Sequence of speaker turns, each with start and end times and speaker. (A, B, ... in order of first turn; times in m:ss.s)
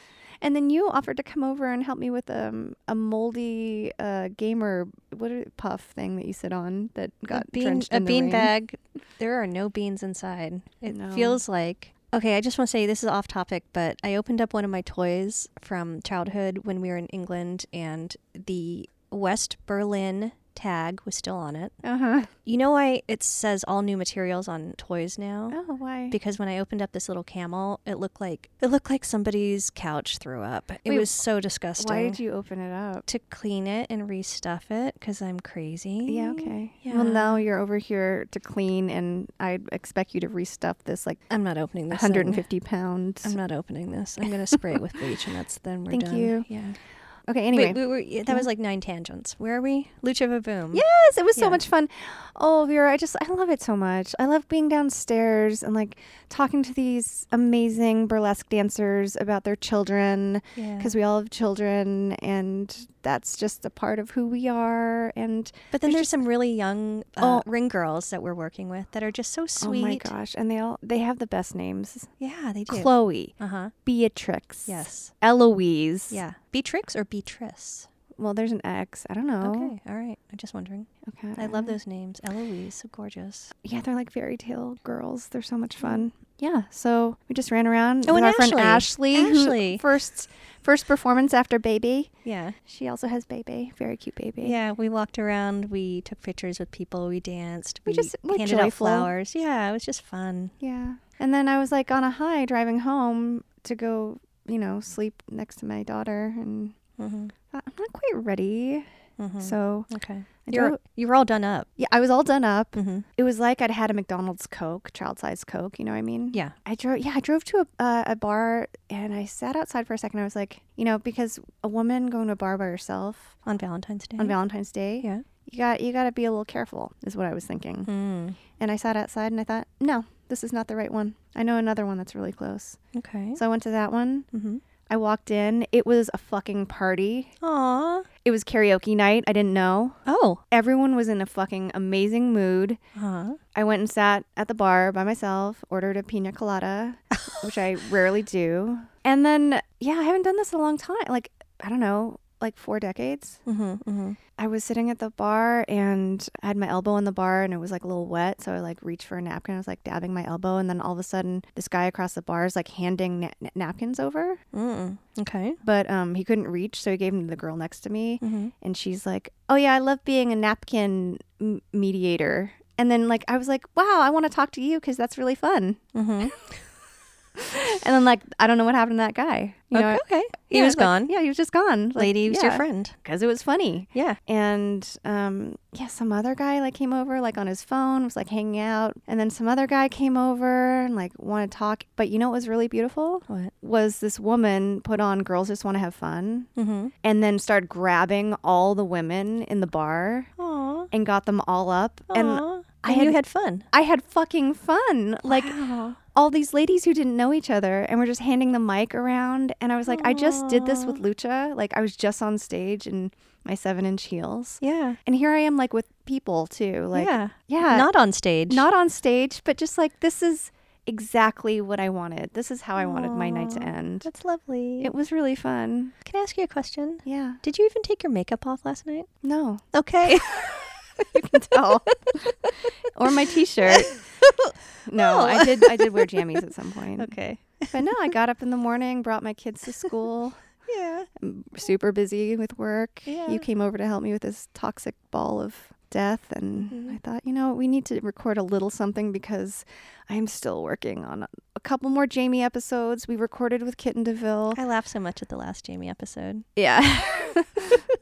0:00.4-0:08.5 A
0:07.3-0:21.7 B
0:10.9-0:11.4 A
0:21.8-0:22.3 A
0:22.4-0:25.6 B
0:25.5-0:26.2 A
0:26.1-0:32.2 B
0:30.8-0:31.2 A
0:31.8-0:33.0 A
0:33.0-0:37.4 B
0:36.0-0:41.2 A
0:41.3-0:42.4 B
0:41.9-0:43.4 A
0:43.2-0:46.8 B
0:45.9-0:46.5 A
0:47.3-0:48.5 A
0:47.5-0:50.8 B
0:50.7-1:06.1 A
0:51.4-0:51.6 B
1:00.6-1:00.9 B
1:05.7-1:10.1 B
1:07.2-1:07.4 A
1:09.6-1:12.1 A
1:12.2-1:13.7 B
1:12.7-1:16.2 A
1:14.7-1:15.1 B
1:16.1-1:17.9 B
1:18.2-1:19.7 A
1:19.4-1:23.5 B
1:21.1-1:21.8 A
1:23.6-1:32.1 A
1:28.0-1:29.8 B
1:32.2-1:32.6 B
1:32.6-1:34.6 A
1:34.4-1:40.5 B
1:37.8-1:39.1 A
1:40.6-1:46.7 A
1:47.0-1:47.3 B
1:47.5-1:48.9 A
1:49.2-1:51.7 B
1:49.4-1:49.9 A
1:50.4-1:50.8 A
1:51.8-2:03.4 A
1:52.7-1:53.0 B
2:03.4-2:04.4 B
2:04.2-2:07.9 A
2:07.8-2:08.4 B
2:08.6-2:12.8 A
2:12.9-2:13.4 B
2:13.3-2:14.2 A
2:14.3-2:14.6 B
2:14.9-2:17.3 A
2:17.4-2:18.1 B
2:18.2-2:20.0 A
2:20.0-2:20.4 B
2:20.5-2:22.8 A
2:23.0-2:23.4 B
2:23.5-2:33.4 A
2:33.4-2:34.2 B
2:34.4-2:44.4 A
2:44.5-2:45.6 B
2:45.6-2:55.8 A
2:48.2-2:48.5 B
2:55.9-2:56.4 B
2:57.4-3:16.5 A
2:59.7-3:01.1 B
3:02.0-3:03.0 B
3:16.6-3:16.9 B
3:17.0-3:20.3 A
3:20.4-3:20.9 B
3:20.9-3:23.2 A
3:22.1-3:23.7 B
3:23.7-3:25.6 A
3:25.2-3:26.0 B
3:26.1-3:37.9 A
3:29.9-3:31.0 B
3:34.6-3:35.0 B
3:36.9-3:38.6 B
3:38.5-3:44.1 A
3:42.8-3:44.9 B
3:44.8-3:45.9 A
3:46.0-3:49.1 B
3:47.0-3:47.4 A
3:49.2-3:49.6 A
3:49.7-3:51.5 B
3:51.0-3:54.0 A
3:53.6-3:56.4 B
3:54.8-3:57.1 A
3:57.0-3:58.1 B
3:57.7-4:00.4 A
4:00.6-4:01.1 B
4:01.2-4:14.6 A
4:03.0-4:03.4 B
4:06.5-4:07.0 B
4:14.5-4:16.4 B
4:16.6-4:17.8 A